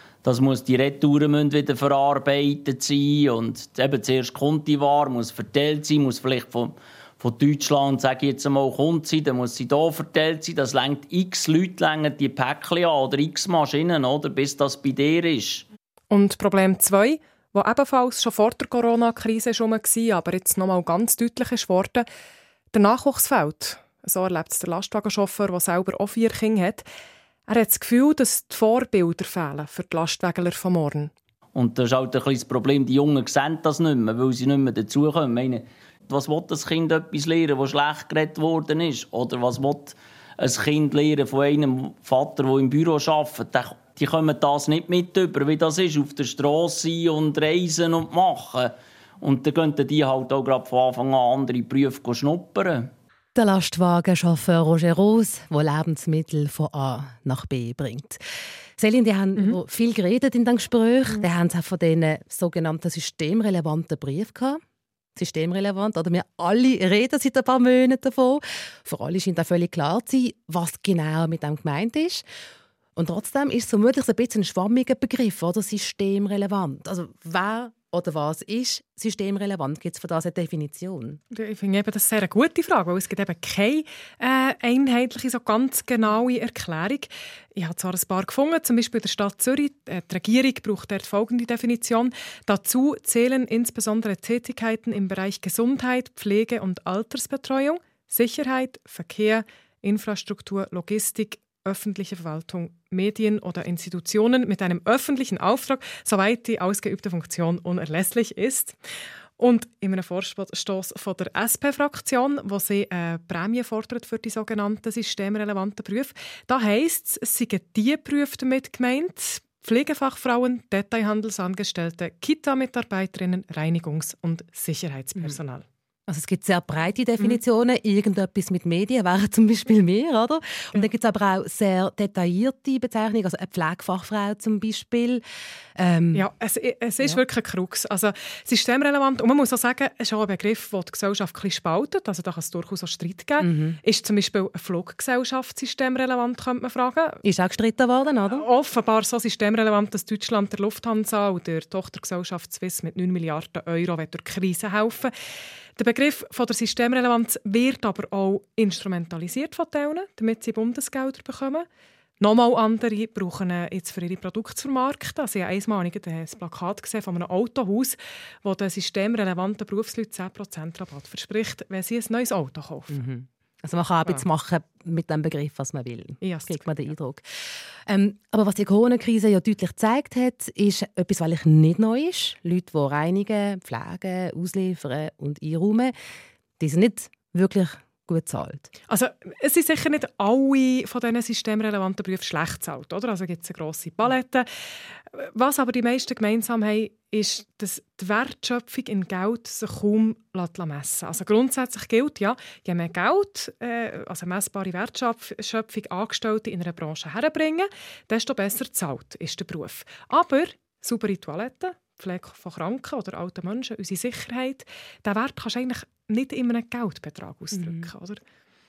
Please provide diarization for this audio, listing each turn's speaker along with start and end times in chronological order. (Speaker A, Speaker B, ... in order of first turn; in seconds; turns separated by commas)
Speaker A: 0.2-15.6, Speaker B: 16.1-22.1, Speaker B: 22.7-26.8, Speaker B: 27.5-31.1, Speaker A: 31.5-52.9, Speaker C: 53.3-58.2, Speaker C: 58.8-64.6, Speaker C: 65.1-72.2, Speaker C: 73.0-81.2, Speaker B: 81.3-108.8, Speaker B: 109.4-125.6, Speaker C: 126.1-135.2, Speaker C: 135.8-136.3, Speaker B: 136.1-147.2, Speaker C: 143.4-143.8, Speaker C: 147.2-148.4, Speaker B: 148.3-155.1, Speaker B: 155.8-161.7, Speaker B: 162.2-173.0, Speaker C: 172.9-177.2, Speaker B: 176.2-176.7, Speaker C: 177.8-185.9, Speaker C: 186.6-188.7, Speaker B: 188.9-194.4, Speaker B: 195.1-218.2, Speaker C: 217.5-217.8